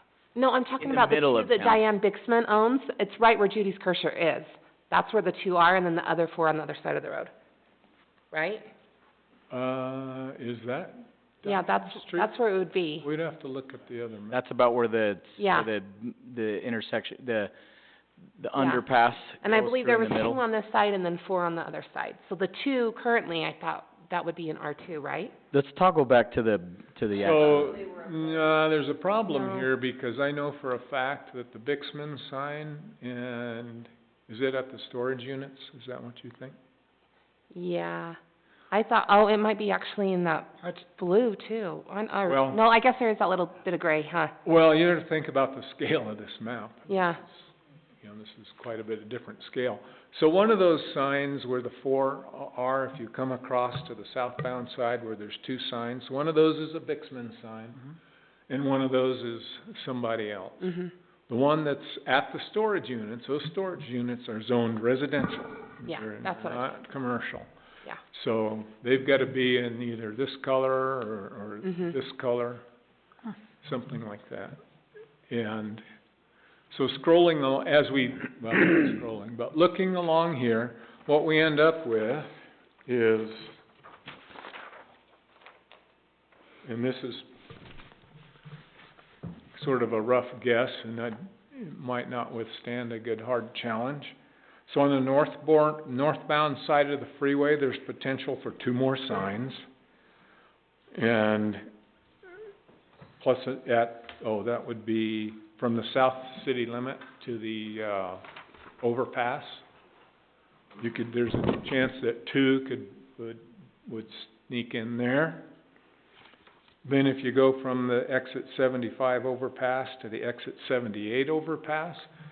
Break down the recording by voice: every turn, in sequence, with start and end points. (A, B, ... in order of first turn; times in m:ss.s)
0:00.3-0:07.3 A
0:00.8-0:01.8 B
0:08.3-0:08.7 A
0:09.5-0:12.3 C
0:11.4-0:13.0 A
0:13.0-0:14.4 C
0:14.3-0:17.5 B
0:15.4-0:15.7 A
0:18.4-0:20.4 B
0:18.6-0:18.8 A
0:19.4-0:25.3 A
0:25.5-0:27.8 B
0:27.1-0:36.6 C
0:29.3-0:29.7 A
0:37.5-0:38.2 A
0:38.7-0:44.3 A
0:42.3-0:42.6 C
0:44.4-0:47.5 C
0:46.9-0:47.2 A
0:48.0-0:57.8 C
0:58.5-1:07.5 C
1:05.8-1:06.7 A
1:08.1-1:12.6 C
1:11.7-1:11.9 A
1:13.6-1:14.6 C
1:15.3-1:15.8 C
1:16.7-1:22.3 C
1:22.9-1:23.6 C
1:26.6-1:27.3 C
1:29.5-1:34.2 C
1:34.7-1:39.6 C
1:40.9-1:41.6 C
1:43.2-1:48.2 C
1:48.8-1:49.6 C
1:50.8-1:55.5 C
1:56.8-2:02.1 C